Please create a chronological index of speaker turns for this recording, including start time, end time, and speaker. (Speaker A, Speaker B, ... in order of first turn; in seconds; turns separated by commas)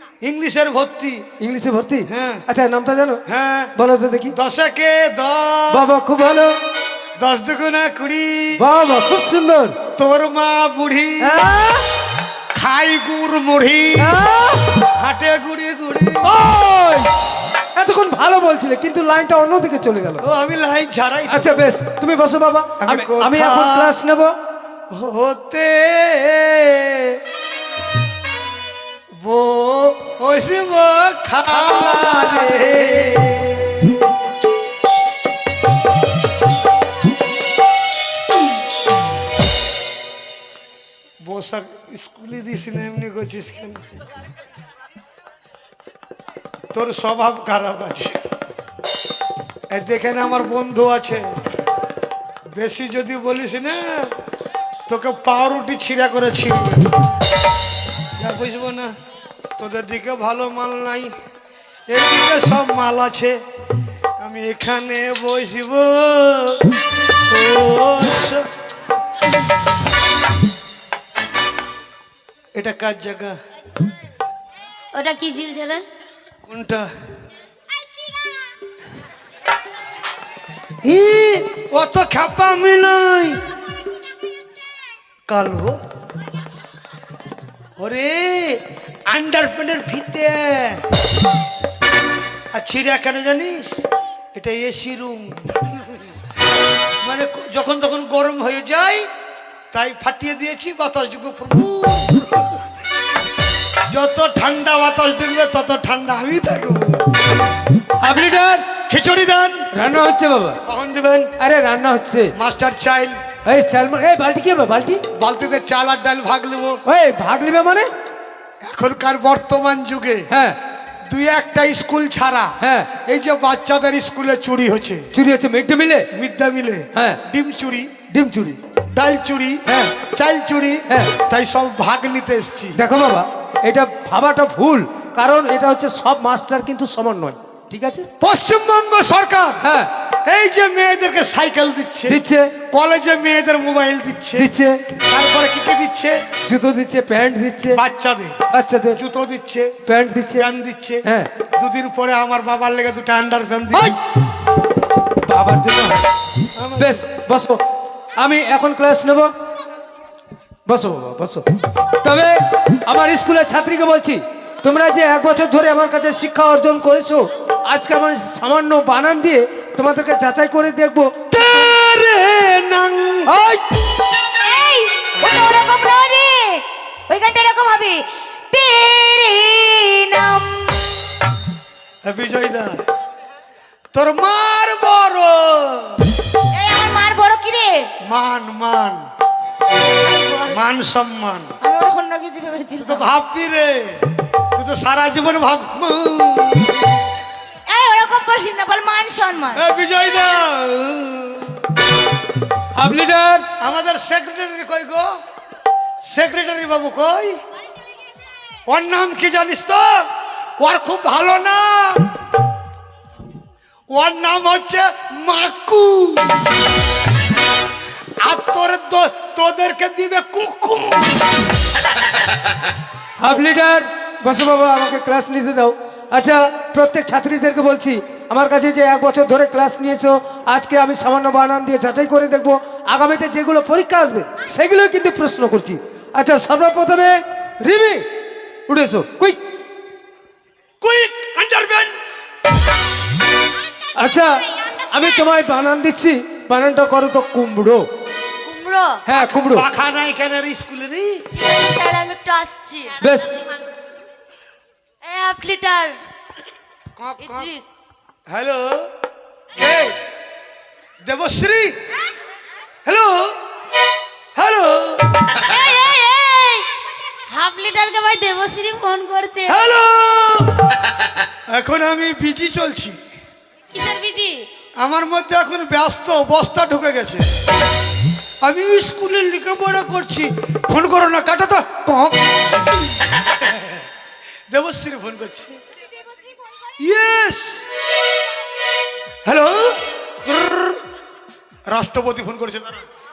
Speaker A: 0.2-1.2, Speaker B: 1.4-3.2, Speaker A: 2.0-2.4, Speaker A: 3.3-3.7, Speaker B: 3.8-4.3, Speaker A: 4.3-5.9, Speaker B: 5.7-6.5, Speaker A: 7.2-8.6, Speaker B: 8.6-9.8, Speaker A: 10.0-11.4, Speaker B: 11.2-11.9, Speaker A: 12.5-14.1, Speaker B: 14.0-14.8, Speaker A: 14.8-16.3, Speaker B: 16.2-17.1, Speaker B: 17.7-20.2, Speaker A: 20.2-21.5, Speaker B: 21.3-24.3, Speaker A: 22.8-23.9, Speaker A: 24.9-27.2, Speaker A: 29.2-34.0, Speaker A: 41.2-43.8, Speaker A: 46.7-48.2, Speaker A: 49.7-51.2, Speaker A: 52.5-54.1, Speaker A: 54.9-56.9, Speaker A: 58.2-58.9, Speaker A: 59.6-61.1, Speaker A: 61.9-63.4, Speaker A: 64.2-66.6, Speaker A: 67.3-68.5, Speaker A: 72.5-73.4, Speaker C: 74.9-75.8, Speaker A: 76.4-76.9, Speaker A: 80.8-83.4, Speaker A: 85.3-85.8, Speaker A: 87.8-90.8, Speaker A: 92.5-93.8, Speaker A: 94.3-96.1, Speaker A: 97.0-99.0, Speaker A: 99.7-102.6, Speaker A: 103.9-107.0, Speaker B: 108.0-108.7, Speaker A: 108.9-109.7, Speaker B: 109.7-110.6, Speaker A: 110.7-111.3, Speaker B: 111.4-112.3, Speaker A: 112.3-113.2, Speaker B: 113.5-115.0, Speaker A: 115.1-116.8, Speaker B: 116.8-117.9, Speaker A: 118.6-120.3, Speaker B: 120.3-120.6, Speaker A: 121.0-125.1, Speaker B: 122.6-122.9, Speaker B: 125.1-126.1, Speaker A: 126.1-127.9, Speaker B: 128.1-128.6, Speaker A: 128.9-132.8, Speaker B: 132.8-138.1, Speaker A: 138.2-139.6, Speaker B: 139.6-139.9, Speaker A: 140.2-146.2, Speaker B: 142.1-142.5, Speaker B: 144.3-144.8, Speaker B: 146.4-147.8, Speaker A: 147.7-148.4, Speaker B: 148.5-149.0, Speaker A: 148.9-149.8, Speaker B: 149.8-150.5, Speaker A: 150.3-153.9, Speaker B: 155.3-156.1, Speaker A: 156.5-157.1, Speaker B: 156.8-157.6, Speaker B: 158.2-159.3, Speaker B: 160.7-171.1, Speaker A: 171.3-173.3, Speaker B: 173.3-173.6, Speaker C: 174.3-180.9, Speaker A: 182.0-182.8, Speaker A: 183.9-186.1, Speaker C: 186.5-187.9, Speaker A: 188.0-189.1, Speaker C: 189.9-190.6, Speaker A: 190.5-191.5, Speaker C: 191.6-193.0, Speaker A: 192.8-194.0, Speaker A: 194.5-196.8, Speaker C: 197.7-199.6, Speaker A: 199.5-201.6, Speaker B: 202.8-203.5, Speaker A: 203.6-205.1, Speaker A: 206.0-207.4, Speaker A: 208.7-210.0, Speaker A: 210.6-212.1, Speaker A: 213.9-216.4, Speaker A: 218.2-221.2, Speaker B: 223.2-238.0, Speaker B: 238.7-239.4, Speaker A: 240.8-241.9, Speaker B: 243.9-247.8, Speaker C: 248.4-249.0, Speaker B: 249.1-249.7, Speaker A: 249.4-251.3, Speaker C: 251.3-253.0, Speaker B: 253.0-253.4, Speaker C: 255.0-256.0, Speaker A: 257.0-257.5, Speaker C: 257.2-257.6, Speaker A: 258.3-258.9, Speaker A: 259.6-260.0, Speaker A: 261.0-261.8, Speaker A: 262.8-263.4, Speaker A: 264.3-265.1, Speaker C: 265.4-266.7, Speaker C: 267.3-269.6, Speaker A: 269.5-270.6, Speaker A: 271.5-273.0, Speaker C: 273.7-274.5, Speaker A: 274.8-277.3, Speaker A: 278.4-282.4, Speaker A: 284.5-285.6, Speaker A: 286.8-287.6, Speaker A: 289.2-290.8, Speaker A: 291.7-292.8